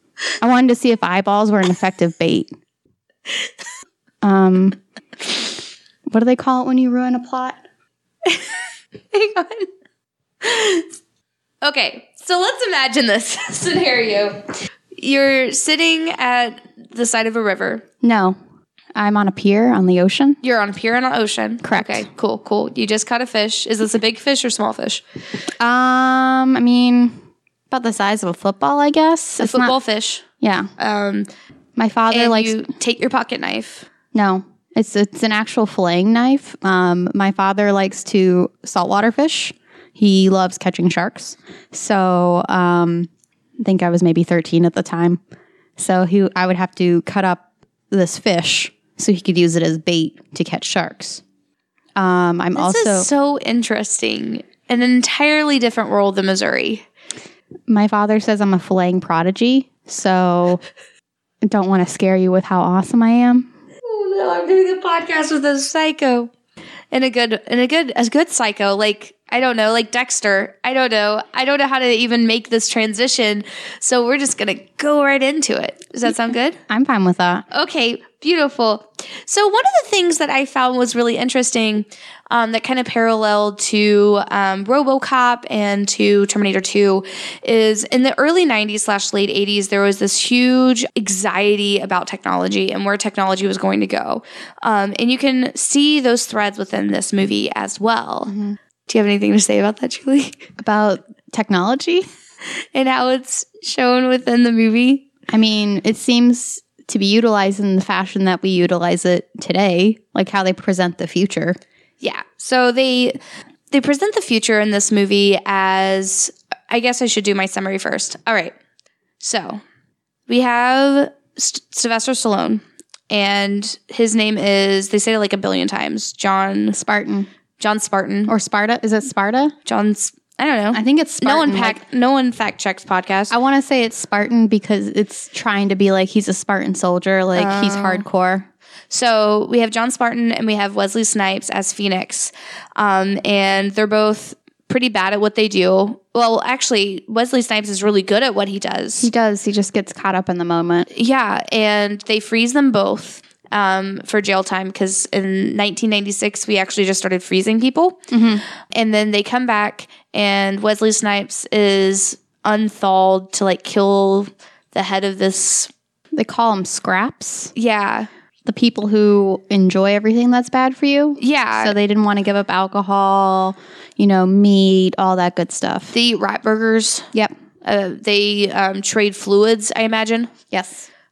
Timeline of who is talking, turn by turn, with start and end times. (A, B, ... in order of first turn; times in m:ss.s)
0:00.4-0:02.5 A
0:04.2-0:04.8 A
0:06.1-0:07.6 A
0:08.2-0:08.6 B
0:09.1-0:09.7 B
0:10.4-0:10.9 B
0:11.6-0:17.8 B
0:18.0-0:18.4 A
0:18.9-0:20.4 A
0:20.4-0:25.0 B
0:21.6-0:22.0 A
0:25.6-0:29.7 A
0:29.4-0:30.2 B
0:30.4-0:30.7 A
0:30.8-0:31.3 B
0:31.8-0:32.6 A
0:32.1-0:33.9 B
0:34.1-0:43.1 A
0:43.6-0:45.2 A
0:45.8-0:51.2 A
0:52.0-0:53.1 A
0:52.6-0:56.8 B
0:57.7-1:00.6 A
1:01.4-1:03.5 A
1:03.8-1:06.3 B
1:06.9-1:16.6 B
1:16.7-1:17.4 A
1:17.5-1:38.3 B
1:38.3-1:38.6 A
1:38.9-1:40.5 B
1:40.6-1:42.0 A
1:42.7-1:45.0 B
1:45.3-1:51.6 A
1:52.0-1:53.2 B
1:53.7-1:58.6 B
1:59.2-1:59.6 B
2:00.3-2:06.8 B
2:06.7-2:07.3 A
2:07.6-2:08.3 B
2:08.3-2:09.5 A
2:09.6-2:13.3 B
2:10.7-2:11.8 A
2:13.3-2:18.5 A
2:17.3-2:18.0 B
2:18.9-2:29.1 B
2:29.0-2:30.9 A
2:30.9-2:38.1 B
2:38.1-2:38.4 A
2:38.6-2:45.7 B
2:46.1-2:47.5 A
2:47.5-2:48.1 B
2:48.4-2:55.9 A
2:51.2-2:51.8 B
2:55.9-2:57.1 B
2:57.6-3:00.3 B
3:00.5-3:00.9 A